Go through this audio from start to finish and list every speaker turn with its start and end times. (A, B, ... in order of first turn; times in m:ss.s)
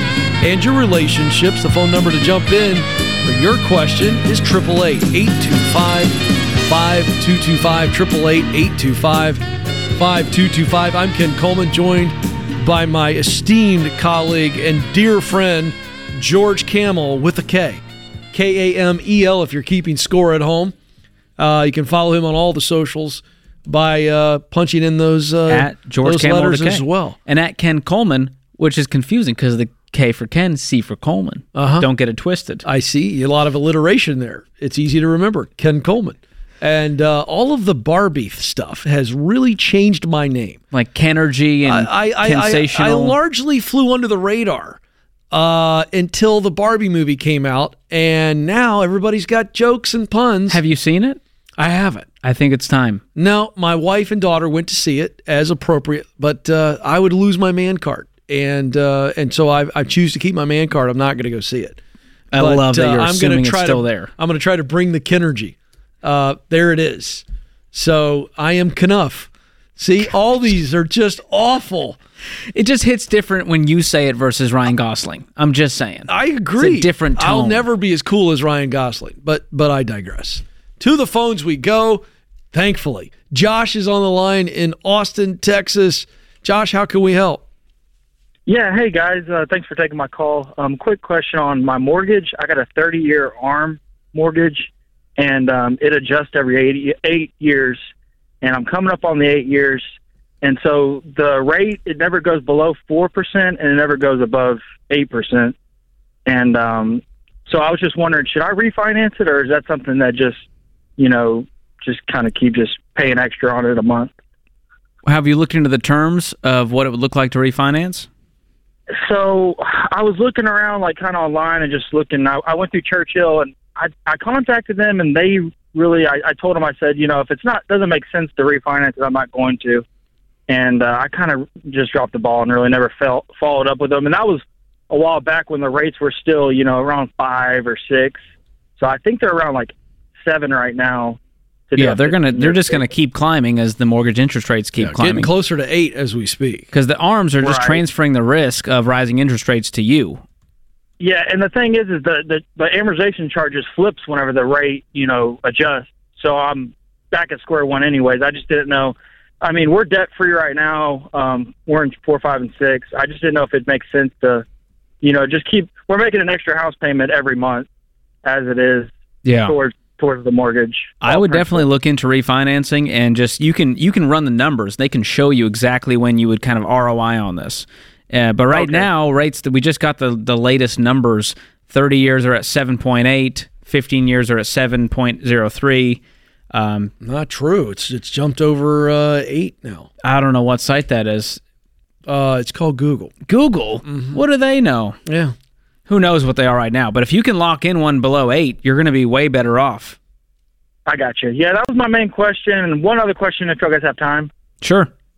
0:00.4-0:20.7 A
0:21.4-0:27.2 A
0:25.5-0:32.6 B
0:31.5-0:31.9 A
0:32.6-0:40.6 A
0:40.7-0:43.1 B
0:41.6-0:44.8 A
0:45.3-0:50.6 A
0:50.5-0:51.2 B
0:51.6-0:52.1 A
0:52.2-0:53.0 B
0:53.1-1:01.8 A
1:02.3-1:04.1 B
1:02.4-1:12.0 A
1:12.5-1:17.6 B
1:16.1-1:27.4 A
1:28.5-1:37.8 C
1:38.4-1:39.8 C
1:40.4-1:45.5 C
1:46.2-1:50.4 C
1:51.0-1:54.1 C
1:55.0-1:58.1 B
1:59.0-2:09.8 C
2:10.5-2:18.2 C
2:18.8-2:21.2 C
2:21.7-2:22.8 C
2:21.8-2:25.3 B
2:24.8-2:26.7 A
2:26.7-2:30.2 B
2:27.4-2:27.8 C
2:31.0-2:44.4 C
2:45.0-2:47.7 C
2:48.2-2:48.9 C
2:49.2-2:49.6 B
2:49.4-2:51.6 C
2:51.0-3:06.0 B
2:58.5-2:58.9 C
3:06.5-3:06.9 B
3:07.0-3:09.9 A
3:10.0-3:11.4 B
3:12.0-3:13.1 A
3:13.3-3:15.0 B
3:13.8-3:14.2 A
3:15.0-3:15.3 A
3:15.9-3:20.0 B
3:20.8-3:24.3 C
3:24.6-3:24.9 B